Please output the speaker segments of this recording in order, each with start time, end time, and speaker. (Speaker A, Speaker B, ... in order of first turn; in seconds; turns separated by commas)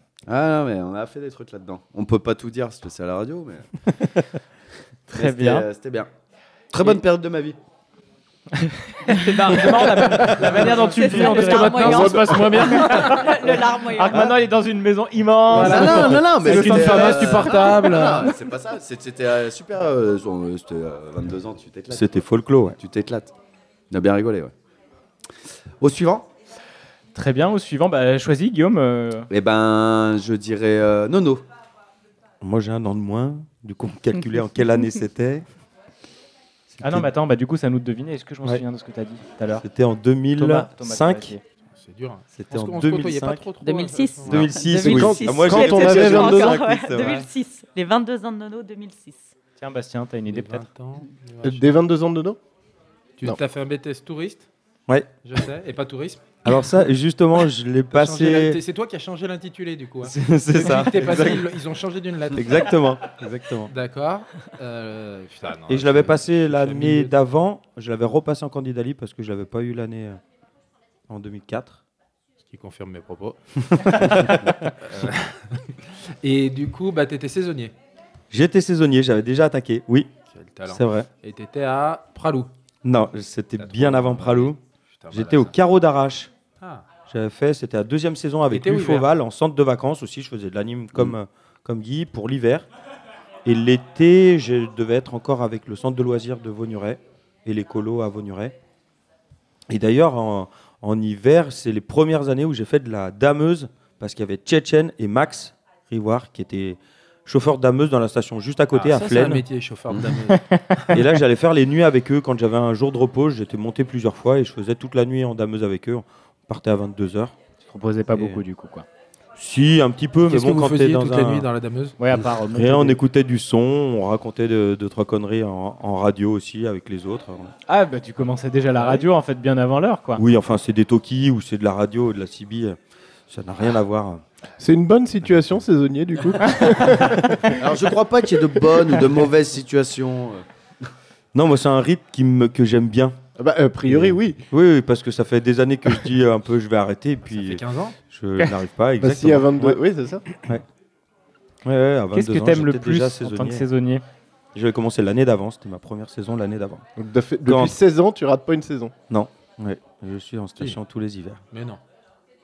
Speaker A: 0.3-3.7, Speaker B: 5.1-5.7, Speaker A: 5.1-6.1, Speaker A: 6.7-7.6, Speaker B: 8.6-13.3, Speaker C: 10.2-13.3, Speaker D: 10.4-14.3, Speaker E: 11.8-12.6, Speaker B: 13.9-17.4, Speaker C: 15.5-18.4, Speaker A: 15.5-23.3, Speaker F: 21.9-22.8, Speaker A: 23.9-24.5, Speaker A: 25.8-26.3, Speaker B: 27.1-29.3, Speaker A: 29.3-31.4, Speaker F: 32.4-35.5, Speaker F: 36.7-37.1, Speaker B: 36.8-39.7, Speaker F: 39.6-41.3, Speaker B: 40.4-41.4, Speaker C: 41.8-44.6, Speaker F: 42.4-43.5, Speaker D: 43.6-49.3, Speaker F: 44.2-47.2, Speaker E: 44.7-46.7, Speaker B: 49.6-50.7, Speaker C: 50.3-51.7, Speaker E: 51.4-52.4, Speaker C: 53.2-54.5, Speaker C: 55.2-56.4, Speaker F: 56.5-58.6, Speaker C: 57.9-62.7, Speaker F: 60.0-61.5, Speaker F: 62.3-63.7, Speaker C: 63.7-67.1, Speaker F: 65.7-70.2, Speaker F: 71.1-71.8, Speaker C: 72.5-74.2, Speaker F: 73.8-74.7, Speaker C: 74.8-75.7, Speaker C: 76.2-77.7, Speaker F: 78.3-80.1, Speaker C: 80.3-82.5, Speaker F: 80.7-81.1, Speaker F: 82.8-84.6, Speaker C: 83.6-85.5, Speaker F: 85.1-86.3, Speaker C: 86.6-86.9, Speaker F: 87.1-92.7, Speaker C: 88.5-89.1, Speaker F: 93.5-98.5, Speaker F: 99.7-109.4, Speaker C: 108.7-110.8, Speaker A: 109.9-110.2, Speaker B: 110.3-110.8, Speaker F: 110.9-117.3, Speaker B: 117.7-118.9, Speaker F: 118.1-118.4, Speaker F: 119.4-121.5, Speaker C: 120.3-122.0, Speaker B: 122.0-123.0, Speaker F: 122.5-127.5, Speaker B: 127.7-130.2, Speaker F: 130.2-132.8, Speaker F: 133.3-134.2, Speaker E: 134.6-137.6, Speaker A: 137.6-140.4, Speaker F: 141.3-143.2, Speaker E: 143.4-144.4, Speaker F: 143.9-149.8, Speaker C: 147.3-148.0, Speaker E: 149.0-150.3, Speaker F: 151.7-153.7, Speaker B: 152.1-154.0, Speaker F: 154.6-156.8, Speaker E: 157.0-158.9, Speaker F: 157.5-157.8, Speaker F: 159.1-161.4, Speaker C: 161.5-161.8